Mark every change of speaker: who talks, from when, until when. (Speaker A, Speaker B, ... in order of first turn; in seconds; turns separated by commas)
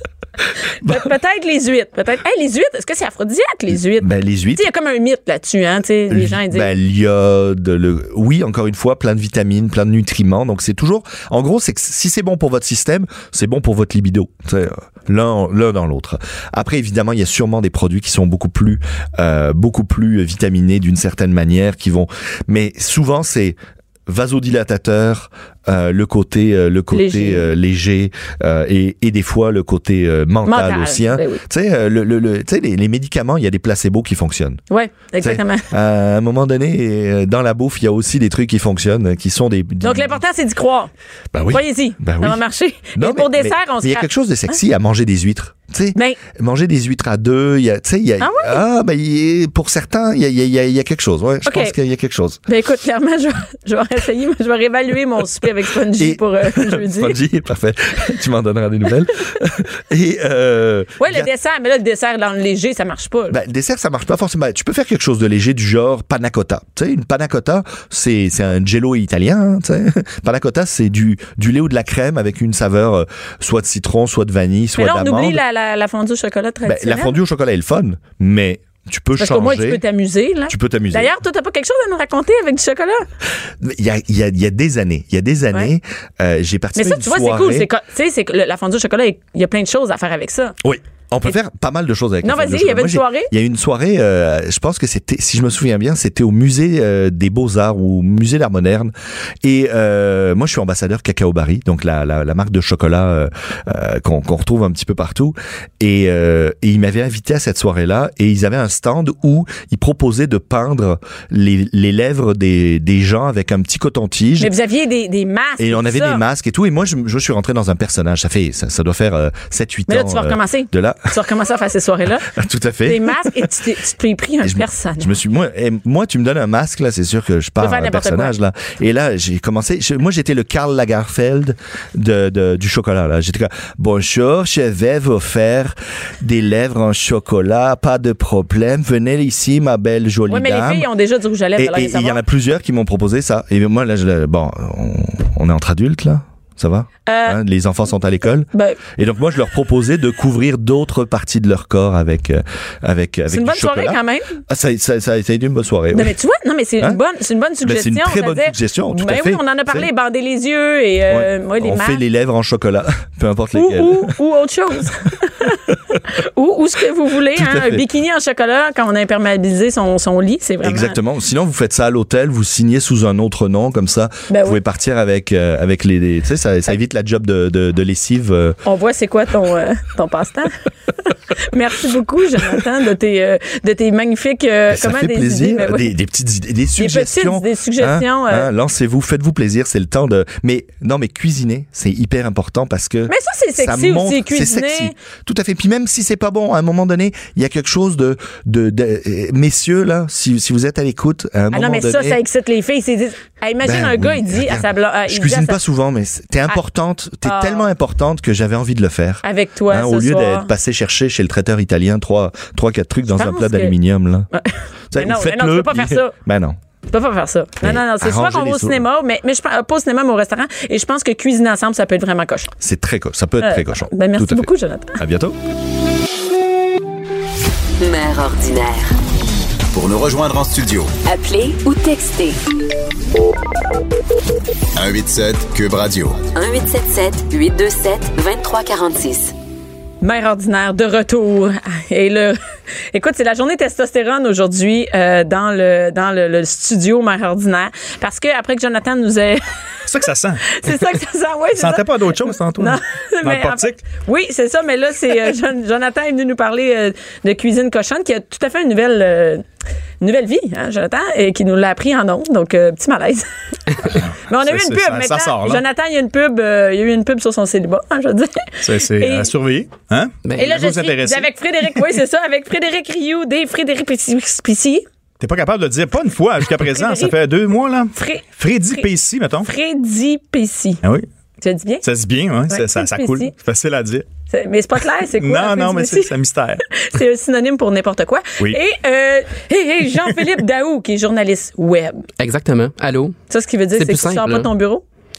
Speaker A: 0.8-6.7, Speaker B: 0.8-1.1, Speaker B: 4.0-4.7, Speaker B: 6.1-34.6, Speaker A: 26.9-27.5, Speaker A: 30.4-31.4, Speaker A: 34.7-35.7, Speaker B: 35.2-40.2, Speaker A: 39.8-40.9, Speaker B: 41.3-42.4, Speaker A: 41.5-44.5, Speaker B: 42.9-52.4, Speaker A: 45.9-46.2, Speaker A: 48.2-48.6, Speaker A: 51.4-51.7, Speaker A: 52.5-57.1, Speaker B: 56.0-61.3, Speaker A: 61.0-63.4, Speaker B: 63.3-75.4, Speaker A: 74.8-77.2, Speaker B: 76.6-79.8, Speaker A: 79.2-83.0, Speaker B: 80.5-81.1, Speaker B: 83.6-87.7, Speaker A: 86.8-90.5, Speaker B: 90.6-114.5, Speaker A: 92.2-93.3, Speaker A: 114.4-116.2, Speaker B: 115.6-121.1, Speaker A: 119.9-122.3, Speaker B: 122.2-123.5, Speaker A: 122.8-125.1, Speaker B: 124.4-140.9, Speaker A: 127.6-128.3, Speaker A: 140.3-142.2, Speaker B: 141.6-156.1, Speaker A: 147.1-147.4, Speaker A: 148.5-148.8, Speaker A: 153.3-154.4, Speaker A: 155.9-162.0, Speaker B: 157.6-159.9, Speaker B: 161.1-164.1, Speaker A: 163.5-171.0, Speaker B: 167.3-167.8, Speaker B: 170.6-178.6, Speaker A: 174.3-174.6, Speaker A: 178.6-180.5, Speaker A: 181.1-185.9, Speaker B: 184.7-202.2, Speaker A: 186.8-188.5, Speaker A: 193.1-194.9, Speaker A: 201.5-205.6, Speaker B: 203.6-214.3, Speaker A: 207.2-207.7, Speaker A: 209.2-210.5, Speaker A: 213.1-213.7, Speaker A: 214.3-216.1, Speaker B: 214.9-216.6, Speaker A: 216.9-222.5, Speaker B: 217.6-218.8, Speaker B: 222.6-225.4, Speaker A: 223.4-225.0, Speaker C: 227.8-228.9, Speaker D: 229.7-230.9, Speaker C: 231.0-232.4, Speaker D: 234.8-236.3, Speaker C: 236.3-239.3, Speaker A: 240.0-242.4, Speaker A: 242.9-249.4, Speaker E: 249.9-250.8, Speaker A: 250.5-259.4, Speaker E: 251.6-253.8, Speaker A: 260.0-263.2, Speaker A: 263.8-269.3, Speaker E: 263.9-265.6, Speaker E: 268.6-271.8, Speaker F: 270.2-270.5, Speaker A: 270.4-274.8, Speaker E: 275.2-279.5, Speaker A: 276.5-277.1, Speaker A: 277.9-278.9, Speaker A: 279.4-280.8, Speaker A: 281.4-281.8, Speaker E: 281.8-284.1, Speaker A: 282.5-283.3, Speaker A: 284.3-286.1, Speaker E: 285.2-286.6, Speaker A: 286.7-292.0, Speaker F: 292.2-293.2, Speaker A: 293.3-294.8, Speaker F: 293.7-294.5